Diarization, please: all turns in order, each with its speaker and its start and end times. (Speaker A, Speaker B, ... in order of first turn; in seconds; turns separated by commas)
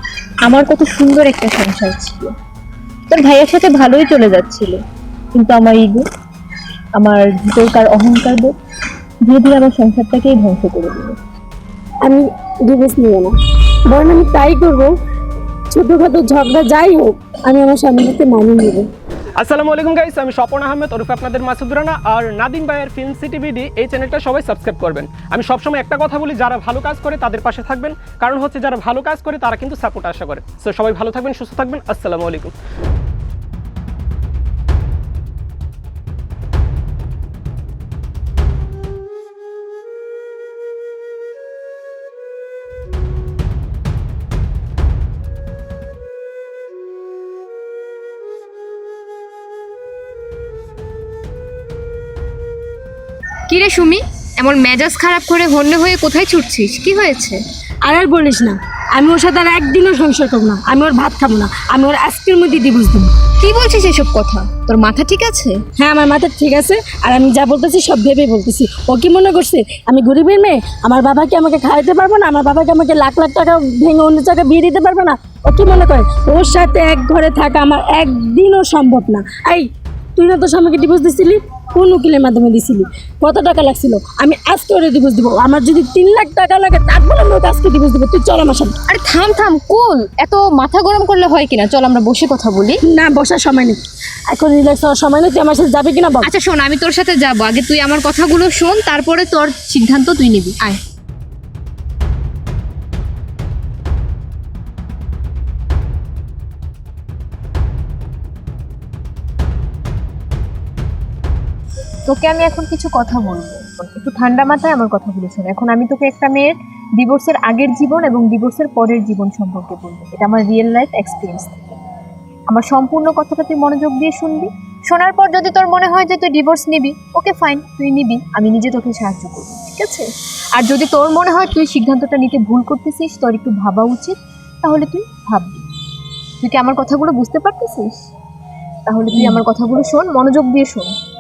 Speaker A: 0.5-2.3, Speaker A: 3.1-4.8, Speaker A: 5.3-6.1, Speaker A: 7.0-8.5, Speaker A: 9.3-11.2, Speaker B: 12.0-13.3, Speaker B: 13.9-14.9, Speaker B: 15.7-18.9, Speaker C: 19.4-32.5, Speaker A: 53.5-57.4, Speaker B: 57.9-63.1, Speaker A: 63.4-65.6, Speaker B: 65.8-88.8, Speaker A: 88.9-92.8, Speaker B: 92.9-93.8, Speaker B: 94.3-96.3, Speaker A: 96.2-100.8, Speaker A: 112.1-121.8, Speaker A: 122.5-135.7, Speaker A: 136.4-137.9, Speaker A: 138.9-140.9